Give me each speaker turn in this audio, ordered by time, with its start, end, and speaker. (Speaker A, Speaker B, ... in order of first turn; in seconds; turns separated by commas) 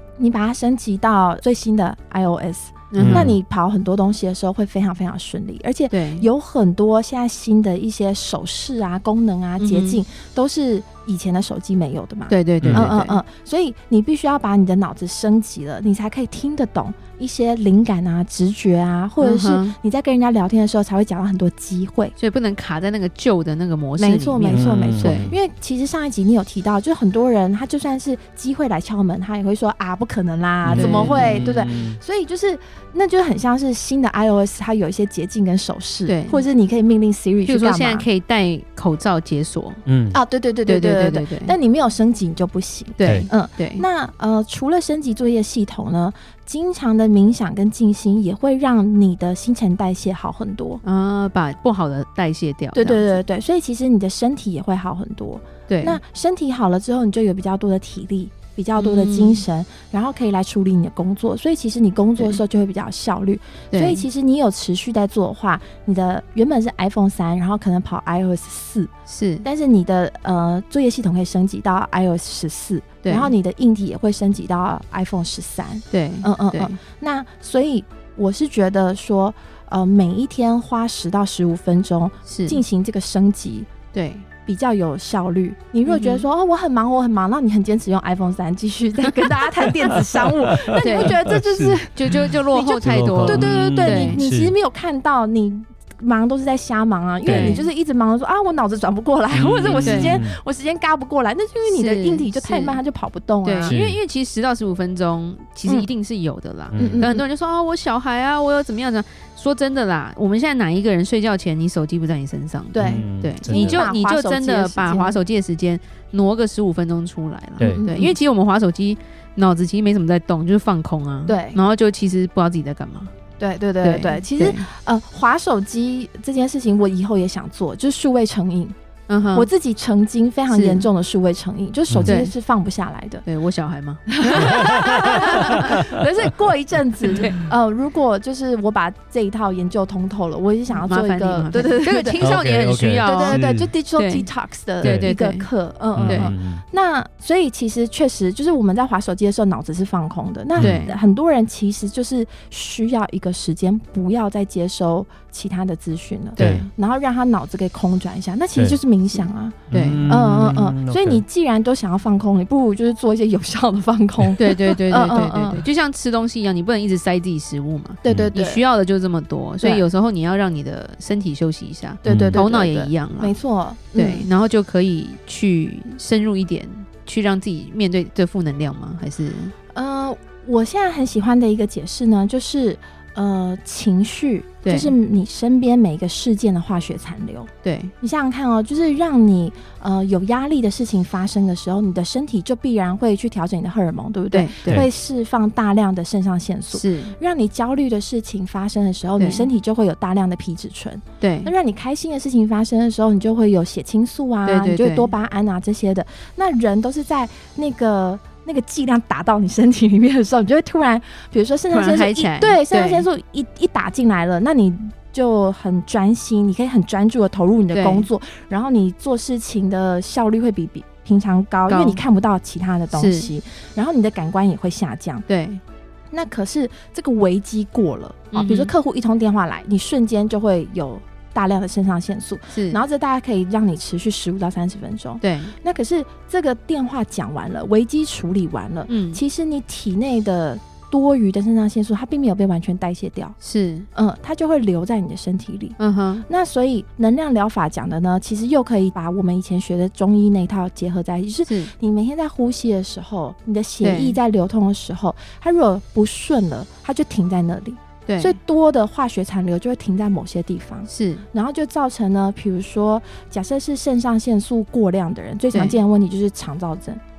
Speaker A: 0.2-22.1, Speaker B: 2.9-3.3, Speaker C: 3.0-3.4, Speaker B: 5.9-6.3, Speaker B: 9.6-10.0, Speaker B: 12.3-13.2, Speaker C: 12.6-12.9, Speaker B: 19.2-19.8, Speaker B: 22.1-25.3, Speaker A: 24.0-38.0, Speaker C: 24.5-25.3, Speaker C: 30.6-32.0, Speaker B: 30.7-31.6, Speaker B: 36.0-36.4, Speaker B: 37.4-39.8, Speaker C: 39.9-40.2, Speaker A: 40.1-50.8, Speaker B: 40.6-41.5, Speaker B: 43.0-43.9, Speaker B: 50.8-53.2, Speaker A: 52.7-68.9, Speaker B: 55.7-56.0, Speaker B: 58.8-59.4, Speaker B: 63.7-64.0, Speaker B: 69.1-69.5, Speaker A: 69.4-83.7, Speaker B: 73.0-73.3, Speaker B: 75.9-76.8, Speaker B: 82.3-82.6, Speaker B: 83.9-84.2, Speaker A: 84.5-103.8, Speaker B: 85.8-86.2, Speaker C: 90.6-91.8, Speaker B: 90.8-91.2, Speaker B: 91.9-94.2, Speaker C: 92.8-94.5, Speaker C: 97.2-97.7, Speaker B: 97.2-97.7, Speaker C: 99.3-100.4, Speaker B: 99.8-100.2, Speaker B: 101.7-102.8, Speaker B: 103.4-123.1, Speaker C: 103.7-104.0, Speaker C: 106.7-107.1, Speaker A: 106.8-107.2, Speaker A: 112.7-115.2, Speaker C: 112.8-113.8, Speaker C: 117.6-117.8, Speaker A: 117.7-118.2, Speaker A: 121.3-121.6, Speaker A: 123.4-128.7, Speaker B: 123.8-124.7, Speaker B: 129.1-129.5, Speaker A: 129.3-133.2, Speaker B: 130.5-130.9, Speaker C: 131.9-132.2, Speaker B: 132.0-132.3, Speaker B: 133.2-135.8, Speaker A: 134.1-142.3, Speaker C: 134.5-135.9, Speaker B: 137.1-137.4, Speaker B: 140.7-143.4, Speaker C: 142.2-143.7, Speaker A: 143.0-165.7, Speaker B: 143.9-144.3, Speaker B: 144.8-145.5, Speaker C: 144.8-145.1, Speaker C: 145.9-146.6, Speaker B: 146.0-146.3, Speaker C: 150.6-150.9, Speaker B: 150.6-150.9, Speaker B: 156.3-156.7, Speaker C: 156.4-156.6, Speaker B: 159.1-160.0, Speaker C: 159.7-161.2, Speaker B: 164.4-173.3, Speaker A: 168.0-168.6, Speaker C: 168.1-168.3, Speaker A: 169.6-169.8, Speaker A: 172.0-174.3, Speaker C: 172.1-172.4, Speaker B: 173.9-179.5, Speaker A: 179.7-187.5, Speaker B: 184.6-184.9, Speaker B: 187.6-187.9, Speaker A: 188.0-225.2, Speaker B: 194.3-194.8, Speaker B: 196.7-197.2, Speaker B: 199.2-199.5, Speaker B: 201.2-201.5, Speaker B: 204.4-205.1, Speaker B: 211.7-213.1, Speaker B: 217.7-218.1, Speaker B: 221.7-222.0, Speaker B: 222.9-223.3, Speaker B: 225.3-225.6, Speaker A: 226.1-243.3, Speaker B: 228.3-228.7, Speaker B: 232.5-232.8, Speaker B: 235.2-235.5, Speaker B: 238.9-239.2, Speaker B: 243.4-243.9, Speaker A: 243.9-245.8, Speaker B: 245.8-246.2, Speaker A: 246.3-267.0, Speaker B: 251.4-251.7, Speaker B: 253.8-254.2, Speaker B: 258.1-258.4, Speaker B: 260.9-261.2, Speaker B: 265.5-265.8